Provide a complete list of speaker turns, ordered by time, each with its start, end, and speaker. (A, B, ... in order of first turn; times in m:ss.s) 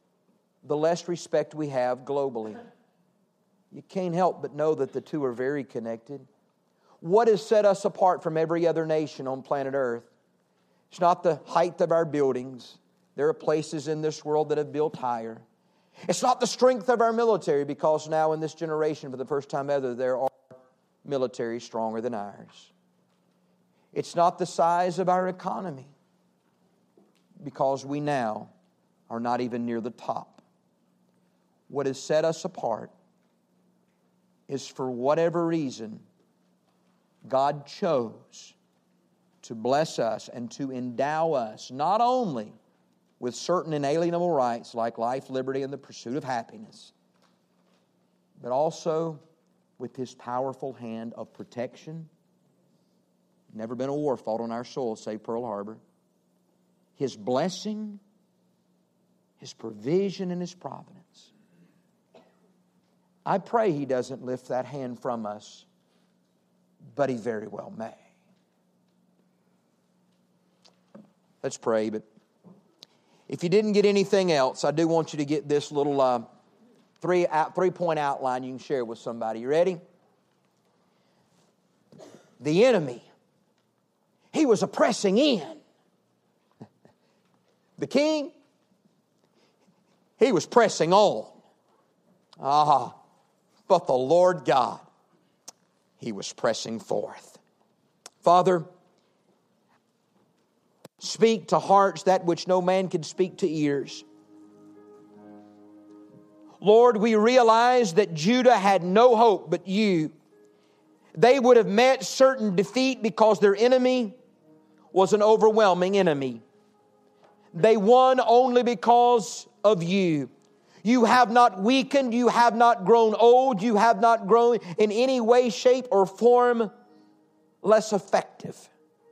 0:00.6-0:02.6 A
0:03.7-0:06.3 A
0:07.0-0:10.1 A
0:10.9-0:15.4 A
0:16.1-0:20.5 A
0:21.0-0:22.7 A
0:23.9-0:25.9 A
0:27.4-0:28.5 A
0:29.1-0:30.4 A
0:31.7-0:32.9 A
0:34.5-0:36.0 A
0:37.2-0:38.6 A
0:39.4-0:42.5 A
0:43.2-0:46.9 A
0:48.4-0:49.2 A
0:49.8-0:52.1 A
0:53.5-0:55.8 A
0:57.0-0:58.0 A
0:59.4-1:01.3 A
1:03.3-1:05.7 A
1:07.0-1:08.0 A
1:11.4-1:12.0 A
1:13.3-1:16.3 A
1:17.0-1:19.8 A
1:22.4-1:23.1 A
1:24.3-1:25.6 A
1:27.8-1:28.3 A
1:30.2-1:31.4 A
1:32.4-1:32.9 A
1:33.7-1:34.8 A
1:36.0-1:37.4 A
1:38.2-1:38.7 A
1:41.0-1:44.0 A
1:46.6-1:50.1 A
1:51.1-1:54.2 A
1:54.9-1:56.4 A
1:57.5-2:00.3 A
2:00.8-2:06.7 A
2:07.6-2:08.7 A